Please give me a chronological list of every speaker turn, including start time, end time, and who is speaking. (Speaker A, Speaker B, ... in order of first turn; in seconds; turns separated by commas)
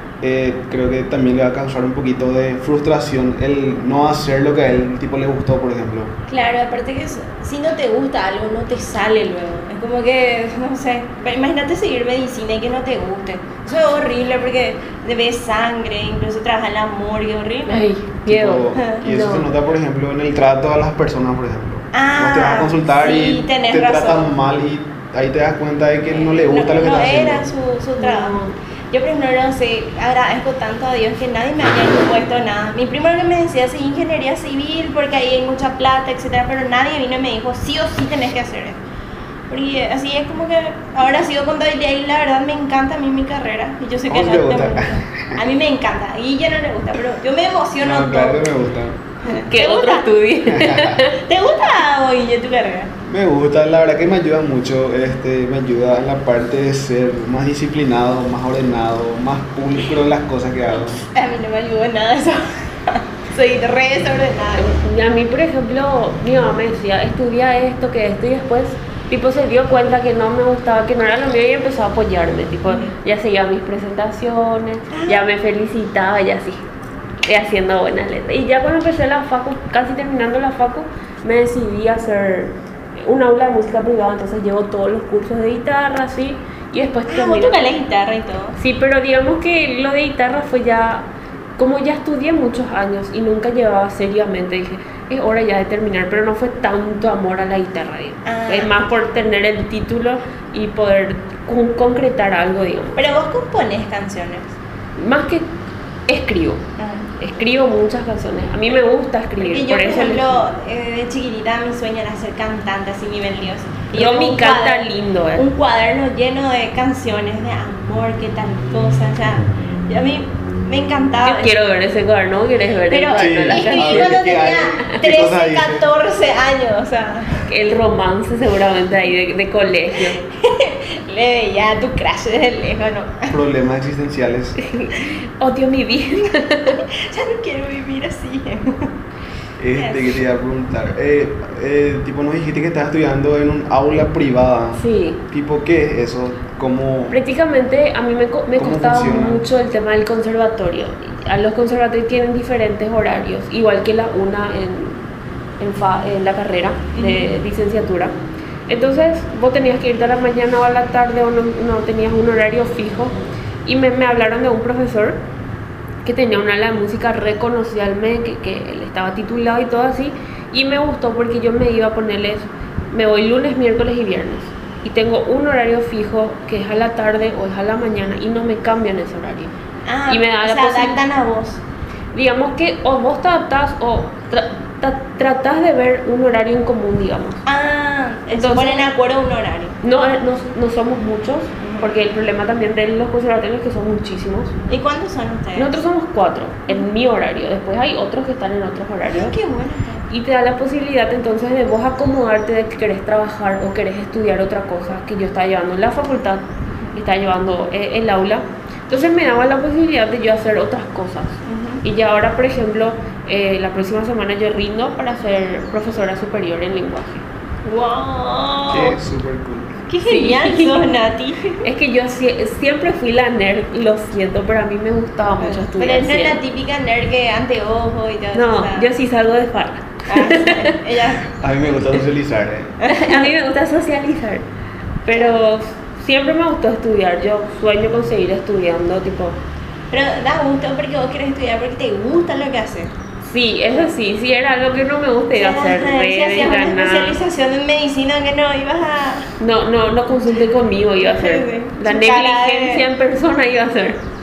Speaker A: 0.2-6.1, Speaker B: 6.3-17.9, Speaker C: 17.7-19.5, Speaker A: 18.2-27.4, Speaker B: 18.8-19.0, Speaker B: 21.9-24.2, Speaker B: 26.1-28.4, Speaker C: 28.0-28.5, Speaker B: 28.9-38.8, Speaker B: 39.5-48.5, Speaker A: 44.1-45.4, Speaker A: 47.8-49.1, Speaker B: 49.2-50.1, Speaker C: 49.3-51.2, Speaker A: 50.5-51.0, Speaker B: 51.1-52.9, Speaker A: 53.0-61.0, Speaker B: 60.8-64.8, Speaker C: 64.6-76.6, Speaker B: 74.9-75.2, Speaker C: 77.2-87.6, Speaker B: 87.1-88.6, Speaker C: 88.6-91.1, Speaker C: 91.6-103.0, Speaker B: 98.2-98.7, Speaker B: 103.0-104.5, Speaker C: 105.0-105.5, Speaker C: 106.1-106.6, Speaker B: 106.8-107.1, Speaker C: 107.2-110.4, Speaker B: 109.4-121.6, Speaker C: 113.9-115.5, Speaker C: 121.2-124.2, Speaker B: 122.9-127.5, Speaker A: 123.2-125.8, Speaker C: 127.5-130.2, Speaker B: 130.1-133.4, Speaker A: 133.3-134.6, Speaker C: 134.6-136.8, Speaker B: 136.7-138.9, Speaker A: 139.6-147.2, Speaker B: 139.7-140.2, Speaker C: 144.8-145.2, Speaker C: 147.1-155.1, Speaker A: 148.6-149.4, Speaker C: 155.6-158.2, Speaker B: 156.9-157.3, Speaker C: 158.7-163.1, Speaker C: 163.6-165.2, Speaker C: 166.0-179.5, Speaker B: 179.8-181.6, Speaker C: 180.1-181.0, Speaker C: 182.1-187.4, Speaker B: 187.4-189.8, Speaker C: 188.3-188.9, Speaker C: 189.8-194.6, Speaker B: 191.6-191.9, Speaker B: 194.7-195.8, Speaker C: 195.6-199.3, Speaker B: 199.0-200.1, Speaker C: 200.1-217.2, Speaker B: 211.4-211.8, Speaker B: 217.6-218.9, Speaker A: 218.7-219.8, Speaker B: 219.9-221.6, Speaker C: 220.1-220.9, Speaker C: 221.6-226.4, Speaker B: 225.4-228.9, Speaker C: 228.3-230.8, Speaker B: 230.1-231.3, Speaker A: 231.4-232.8, Speaker B: 232.8-233.3, Speaker C: 232.9-234.4, Speaker C: 235.0-239.4, Speaker B: 239.9-242.9, Speaker C: 243.2-247.2, Speaker B: 245.3-249.3, Speaker C: 249.4-254.0, Speaker B: 251.0-252.8